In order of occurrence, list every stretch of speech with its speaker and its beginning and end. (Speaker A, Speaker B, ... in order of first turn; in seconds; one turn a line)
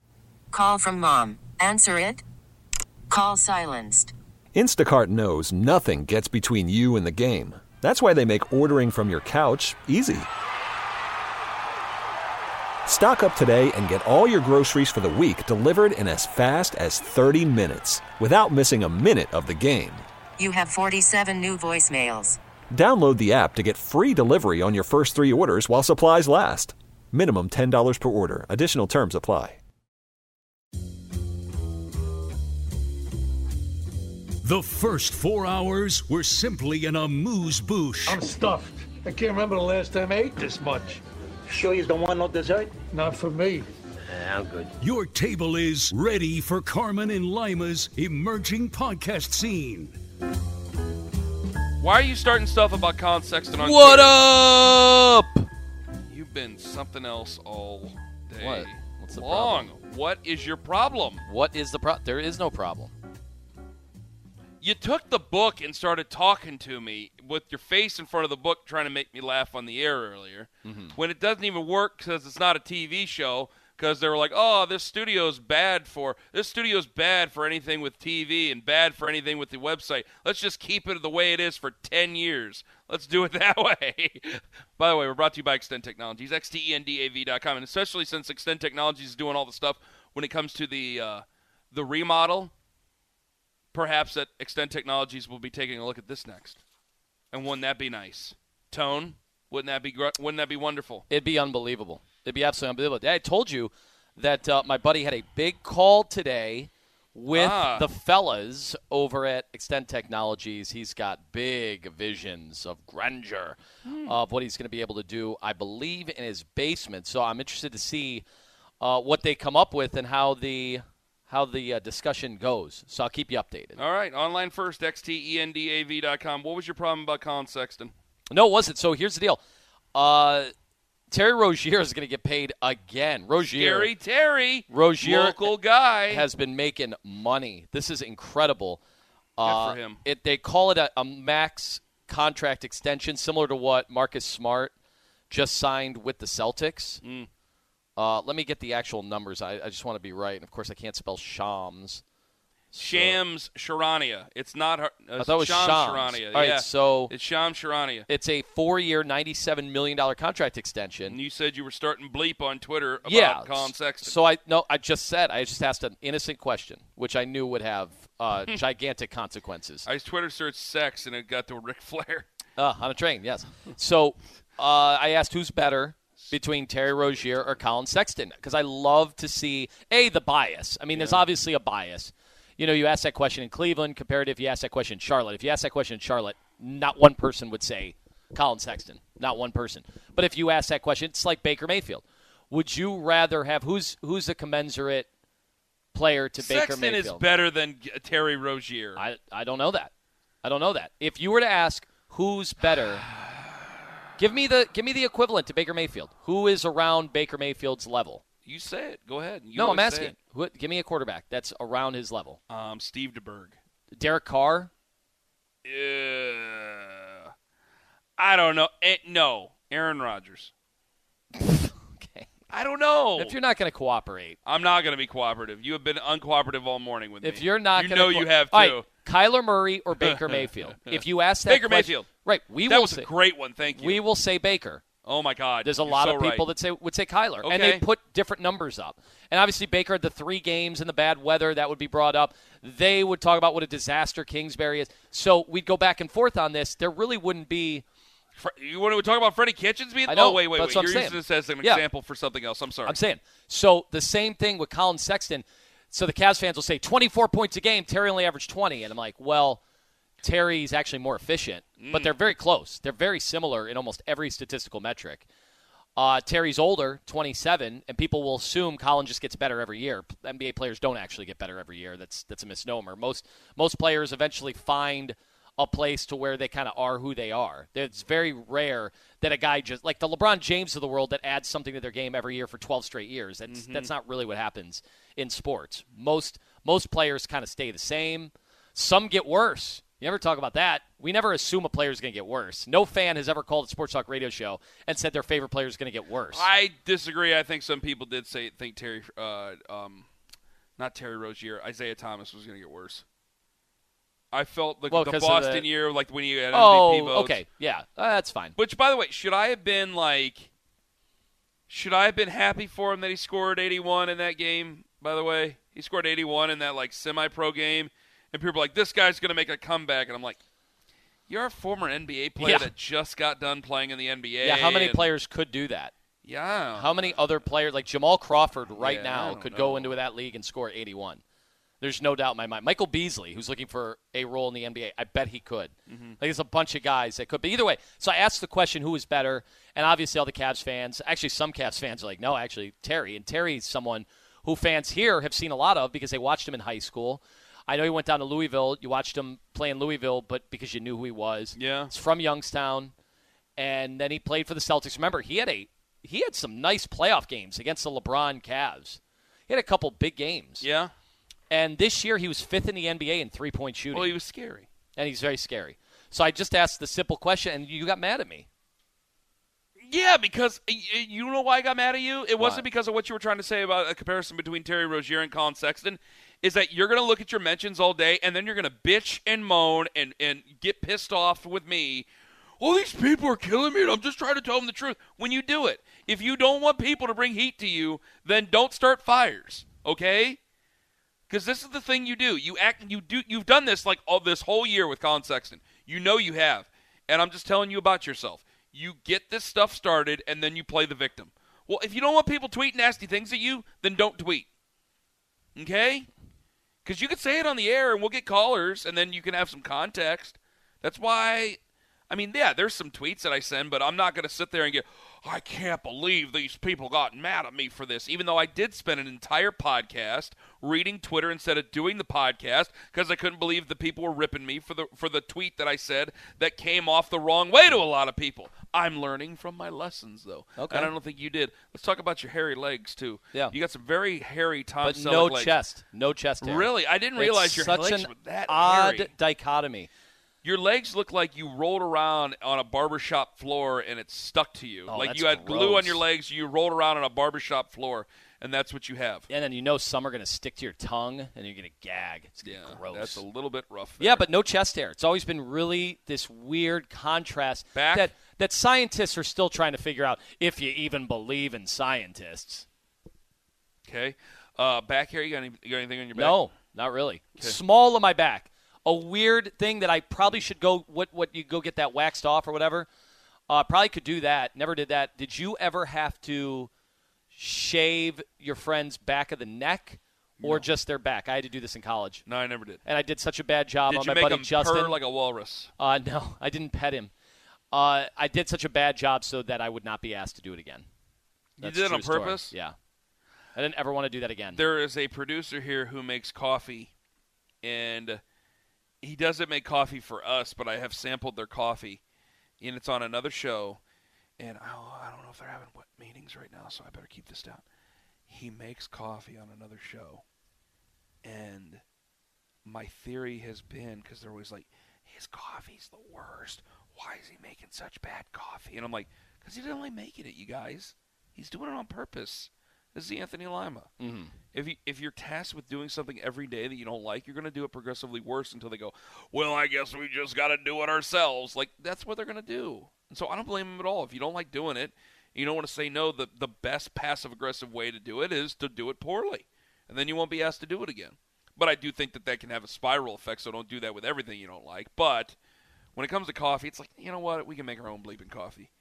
Speaker A: 0.5-2.2
Speaker A: 3.1-4.1
Speaker B: 4.5-10.3
Speaker B: 12.9-20.0
Speaker A: 20.4-22.4
Speaker B: 22.7-29.6
Speaker C: 34.4-38.2
Speaker D: 38.0-41.0
Speaker E: 41.5-42.8
Speaker D: 42.9-43.7
Speaker E: 44.1-44.7
Speaker C: 44.8-50.0
Speaker F: 51.8-54.2
Speaker G: 53.6-55.5
Speaker F: 56.1-61.2
Speaker G: 58.4-59.7
Speaker G: 61.3-62.9
Speaker F: 64.6-92.5
Speaker G: 70.6-71.0
Speaker F: 93.7-96.6
Speaker F: 97.3-101.1
Speaker G: 101.1-118.2
Speaker F: 107.3-107.9
Speaker F: 113.9-114.2
Speaker G: 118.8-123.8
Speaker F: 123.8-127.9
Speaker G: 128.3-129.4
Speaker G: 129.9-130.5
Speaker G: 131.1-133.9
Speaker F: 133.5-136.3
Speaker G: 134.7-135.6
Speaker G: 136.1-138.8
Speaker G: 139.4-144.7
Speaker F: 139.4-140.0
Speaker G: 145.3-147.0
Speaker F: 147.0-147.3
Speaker G: 148.0-152.0
Speaker G: 152.7-153.2
Speaker F: 152.8-158.1
Speaker G: 155.2-157.1
Speaker G: 158.1-161.2
Speaker F: 161.1-164.2
Speaker G: 163.1-169.9
Speaker F: 169.9-172.3
Speaker G: 172.6-195.1
Speaker F: 180.9-181.3
Speaker G: 195.9-197.2
Speaker F: 196.4-199.0
Speaker G: 199.0-199.9
Speaker G: 200.4-203.1
Speaker G: 204.2-208.2
Speaker F: 208.4-210.1
Speaker G: 209.6-212.4
Speaker F: 212.5-213.6
Speaker G: 213.9-214.7
Speaker F: 215.6-217.3
Speaker F: 218.2-220.5
Speaker G: 221.3-222.3
Speaker F: 222.5-223.3
Speaker G: 223.2-224.4
Speaker F: 224.4-228.8
Speaker G: 227.2-233.1
Speaker F: 230.0-232.1
Speaker F: 232.7-234.0
Speaker G: 233.7-234.8
Speaker F: 235.1-236.5
Speaker G: 235.6-247.8
Speaker F: 237.4-237.8
Speaker F: 248.3-253.0
Speaker G: 250.1-251.8
Speaker G: 252.9-259.6
Speaker G: 260.2-265.3
Speaker F: 261.8-262.1
Speaker G: 266.0-296.5
Speaker F: 283.5-283.9
Speaker F: 296.3-300.1
Speaker F: 300.8-303.0
Speaker F: 304.3-307.4
Speaker G: 304.9-305.7
Speaker G: 306.5-308.6
Speaker F: 308.6-310.5
Speaker F: 311.7-320.4
Speaker F: 321.3-325.1
Speaker G: 322.4-322.7
Speaker G: 324.4-325.9
Speaker F: 326.2-327.2
Speaker G: 326.8-331.2
Speaker F: 328.8-330.0
Speaker G: 331.8-352.9
Speaker F: 335.9-336.2
Speaker F: 351.6-351.9
Speaker G: 353.6-360.6
Speaker F: 360.6-360.9
Speaker G: 361.5-364.2
Speaker F: 363.9-364.7
Speaker G: 365.0-368.5
Speaker F: 369.8-382.1
Speaker G: 372.4-372.6
Speaker F: 382.6-390.4
Speaker F: 391.3-404.5
Speaker F: 405.6-406.1
Speaker F: 406.9-435.6
Speaker G: 430.6-430.9
Speaker G: 434.8-439.9
Speaker F: 436.4-439.1
Speaker F: 440.4-449.3
Speaker G: 444.9-446.0
Speaker G: 449.3-453.2
Speaker F: 452.4-454.2
Speaker G: 454.0-462.6
Speaker F: 457.8-458.1
Speaker F: 463.8-466.4
Speaker G: 466.1-472.9
Speaker G: 473.5-476.7
Speaker G: 477.3-482.2
Speaker F: 480.4-480.7
Speaker F: 482.3-482.8
Speaker G: 482.9-485.0
Speaker F: 483.9-485.7
Speaker G: 485.8-487.1
Speaker G: 487.7-490.9
Speaker F: 491.6-492.5
Speaker G: 491.6-492.8
Speaker G: 493.6-494.6
Speaker F: 494.6-496.9
Speaker F: 497.6-498.2
Speaker F: 499.0-502.0
Speaker F: 502.6-503.8
Speaker F: 504.4-507.6
Speaker F: 508.3-510.2
Speaker F: 511.2-511.8
Speaker F: 512.6-523.9
Speaker G: 524.0-524.3
Speaker F: 524.5-545.4
Speaker F: 546.0-548.7